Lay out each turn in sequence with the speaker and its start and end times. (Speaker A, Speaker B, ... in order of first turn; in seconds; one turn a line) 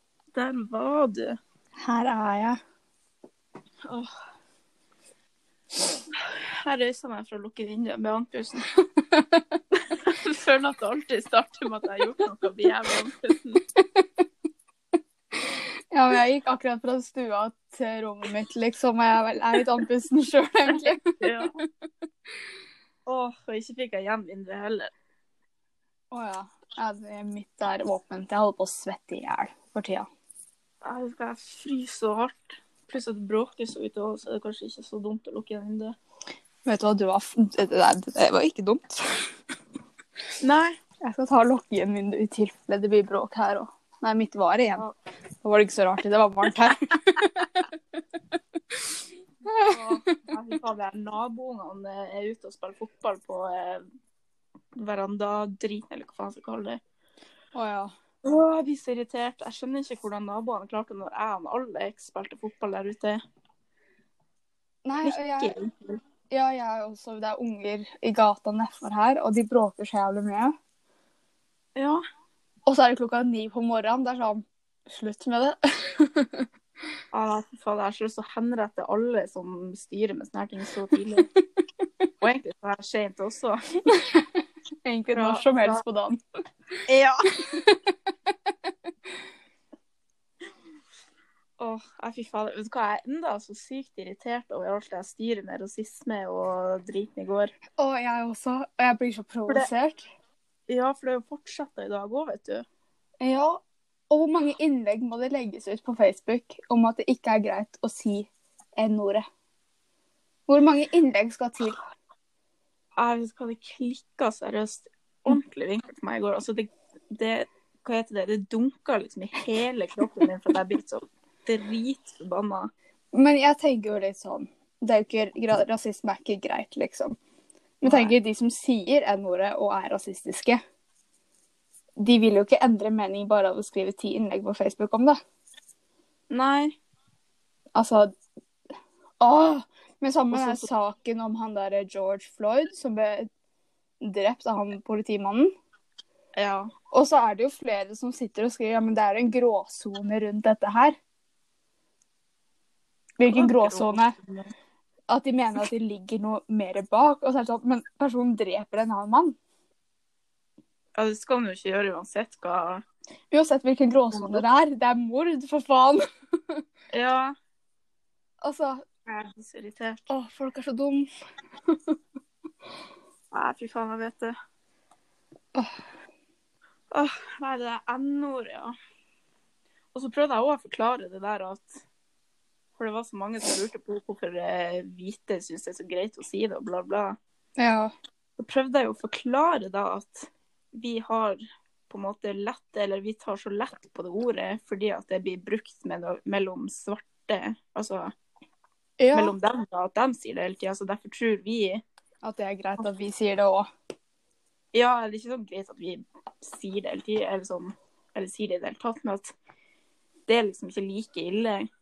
Speaker A: 0.3-1.4
Speaker B: 1.8-2.6
Speaker A: 6.2-8.7
Speaker B: 8.8-9.6
Speaker A: 9.8-13.6
Speaker B: 15.3-21.6
Speaker A: 20.8-21.6
Speaker A: 23.1-24.9
Speaker B: 26.1-30.1
Speaker A: 30.8-36.0
Speaker B: 36.6-39.3
Speaker A: 40.4-40.8
Speaker B: 41.0-44.8
Speaker B: 45.4-47.5
Speaker B: 49.5-49.8
Speaker A: 49.6-53.8
Speaker A: 54.7-56.8
Speaker B: 57.5-57.9
Speaker A: 58.2-63.2
Speaker B: 64.8-65.5
Speaker A: 65.0-66.0
Speaker B: 66.3-70.5
Speaker A: 71.8-72.0
Speaker B: 72.7-76.5
Speaker A: 77.1-81.3
Speaker A: 82.2-83.8
Speaker B: 83.9-86.2
Speaker A: 85.1-85.8
Speaker A: 86.9-87.3
Speaker B: 87.4-87.8
Speaker A: 91.6-97.5
Speaker B: 97.8-100.1
Speaker A: 100.7-102.7
Speaker B: 103.2-109.2
Speaker B: 110.5-111.8
Speaker A: 113.0-122.7
Speaker B: 123.1-127.2
Speaker B: 127.8-130.6
Speaker A: 127.8-128.1
Speaker B: 132.0-135.2
Speaker A: 136.3-136.8
Speaker B: 137.7-138.1
Speaker B: 139.2-143.3
Speaker A: 140.3-140.7
Speaker B: 144.0-145.5
Speaker A: 146.3-146.7
Speaker B: 146.9-151.0
Speaker B: 153.2-154.1
Speaker A: 153.3-154.5
Speaker B: 155.1-159.4
Speaker A: 160.9-162.8
Speaker B: 163.3-166.6
Speaker A: 164.1-164.4
Speaker A: 166.9-167.3
Speaker B: 168.4-168.8
Speaker A: 169.1-170.0
Speaker B: 170.1-171.1
Speaker B: 171.7-171.9
Speaker A: 173.3-174.3
Speaker A: 176.9-178.7
Speaker A: 179.9-181.8
Speaker A: 182.8-187.2
Speaker B: 187.6-187.9
Speaker A: 188.4-198.1
Speaker B: 199.0-199.3
Speaker A: 199.1-201.8
Speaker B: 202.2-203.7
Speaker A: 204.7-209.3
Speaker A: 210.3-211.7